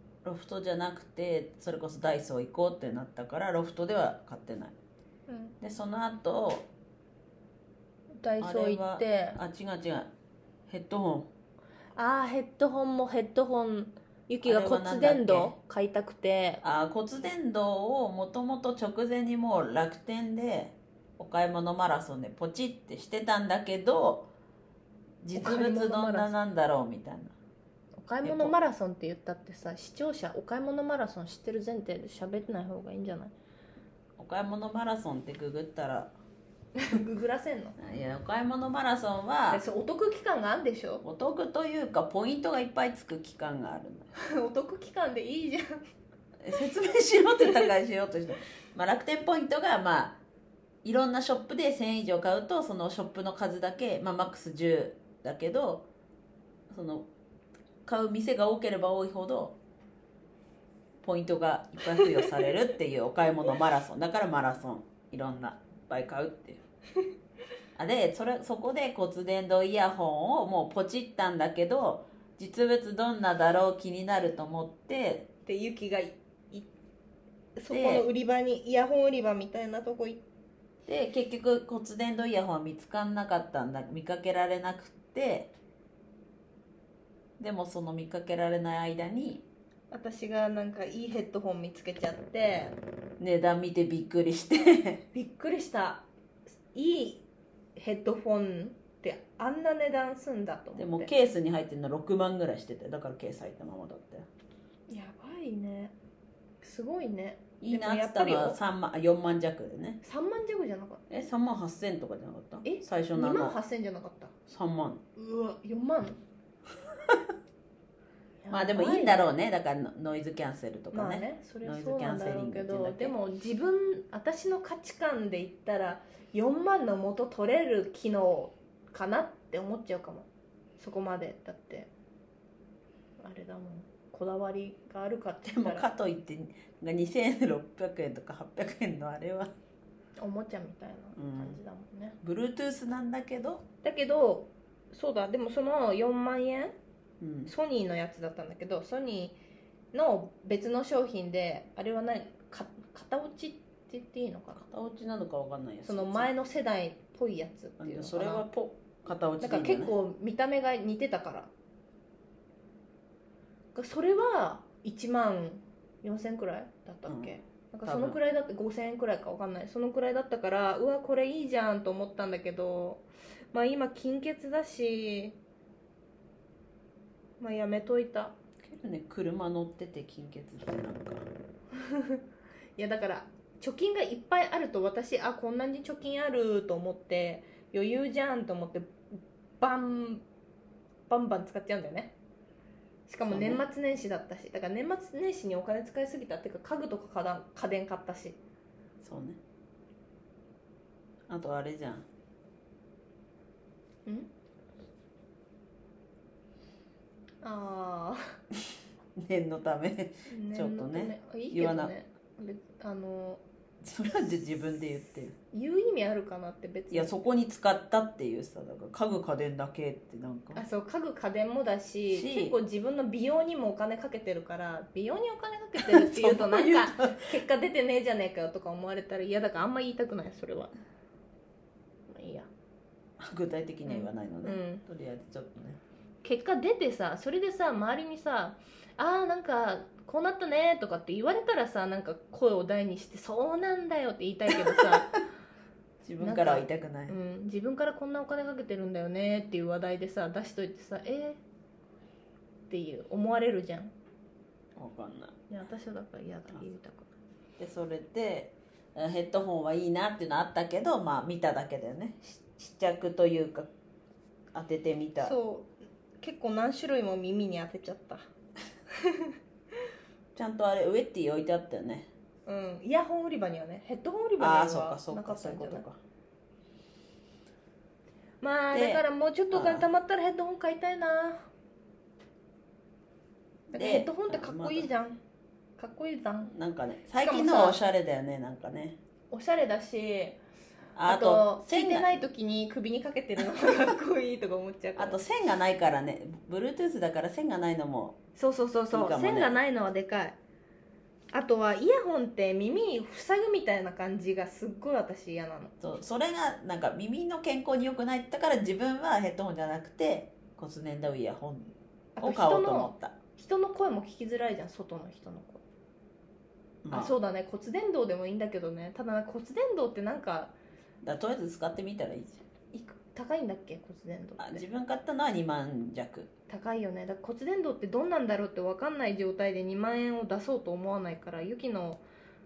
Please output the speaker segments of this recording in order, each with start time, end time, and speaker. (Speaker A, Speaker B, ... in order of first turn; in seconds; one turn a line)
Speaker A: 0.2-4.8
Speaker B: 5.3-5.6
Speaker A: 5.6-6.7
Speaker B: 8.2-9.4
Speaker A: 8.4-10.1
Speaker A: 10.7-11.3
Speaker B: 12.0-16.6
Speaker A: 14.4-15.6
Speaker A: 16.6-24.3
Speaker A: 25.2-27.4
Speaker B: 25.4-26.3
Speaker B: 28.0-33.3
Speaker A: 28.2-28.5
Speaker A: 34.2-36.1
Speaker B: 36.8-37.8
Speaker A: 37.8-39.6
Speaker B: 39.5-41.0
Speaker A: 41.0-44.1
Speaker B: 44.2-45.8
Speaker A: 46.4-50.2
Speaker A: 50.8-55.9
Speaker A: 56.7-57.1
Speaker A: 57.9-59.6
Speaker A: 61.0-66.6
Speaker A: 67.8-75.3
Speaker B: 75.5-76.7
Speaker B: 77.6-80.2
Speaker A: 77.7-78.1
Speaker A: 80.9-85.5
Speaker A: 87.4-89.5
Speaker B: 89.9-92.8
Speaker A: 93.2-95.0
Speaker B: 95.1-96.0
Speaker B: 96.7-97.2
Speaker B: 97.8-101.1
Speaker A: 100.8-104.3
Speaker B: 104.9-106.0
Speaker B: 106.6-108.6
Speaker A: 107.6-110.0
Speaker B: 110.0-111.0
Speaker A: 111.1-113.6
Speaker B: 112.6-114.3
Speaker A: 114.5-115.0
Speaker B: 115.2-116.2
Speaker B: 118.4-119.2
Speaker A: 118.5-123.2
Speaker B: 120.9-131.9
Speaker B: 133.2-135.9
Speaker A: 135.4-139.5
Speaker B: 140.2-142.2
Speaker A: 141.1-141.6
Speaker A: 142.2-143.7
Speaker B: 143.8-146.7
Speaker A: 147.2-147.5
Speaker B: 147.5-149.4
Speaker B: 149.9-154.7
Speaker A: 154.6-156.3
Speaker B: 155.9-158.5
Speaker A: 157.8-159.9
Speaker B: 159.4-161.5
Speaker B: 163.8-175.4
Speaker A: 167.1-167.3
Speaker A: 167.8-168.2
Speaker B: 177.4-178.3
Speaker A: 178.6-181.3
Speaker B: 181.8-182.2
Speaker B: 182.8-189.0
Speaker B: 189.6-190.2
Speaker B: 191.1-192.2
Speaker B: 193.1-198.4
Speaker A: 193.3-193.6
Speaker A: 199.0-199.4
Speaker A: 201.3-202.1
Speaker B: 207.4-208.4
Speaker A: 209.2-211.9
Speaker B: 210.3-213.4
Speaker A: 213.8-215.4
Speaker B: 215.5-217.1
Speaker A: 216.9-220.6
Speaker B: 220.6-230.7
Speaker A: 222.1-222.6
Speaker A: 225.8-227.3
Speaker B: 232.1-232.5
Speaker A: 233.2-235.8
Speaker B: 233.9-234.8
Speaker B: 236.2-245.2
Speaker A: 244.6-245.2
Speaker A: 246.0-247.2
Speaker B: 246.2-251.4
Speaker B: 252.7-253.9
Speaker A: 254.8-255.4
Speaker B: 255.5-257.1
Speaker A: 257.6-263.7
Speaker A: 264.5-265.3
Speaker B: 265.2-268.3
Speaker B: 268.9-269.4
Speaker A: 270.4-272.1
Speaker B: 272.5-275.9
Speaker A: 274.4-276.0
Speaker B: 278.4-281.5
Speaker A: 278.7-279.9
Speaker B: 283.7-285.2
Speaker A: 283.7-284.9
Speaker B: 285.8-286.6
Speaker A: 286.5-289.0
Speaker B: 287.2-287.8
Speaker B: 289.3-290.4
Speaker A: 290.9-292.2
Speaker B: 291.1-295.2
Speaker A: 295.0-298.2
Speaker B: 298.4-300.4
Speaker A: 298.9-299.6
Speaker B: 301.3-305.7
Speaker A: 305.8-313.2
Speaker B: 312.2-315.6
Speaker A: 316.8-317.1
Speaker B: 316.9-320.6
Speaker A: 321.0-322.4
Speaker B: 322.7-324.6
Speaker A: 324.4-326.3
Speaker B: 326.5-332.0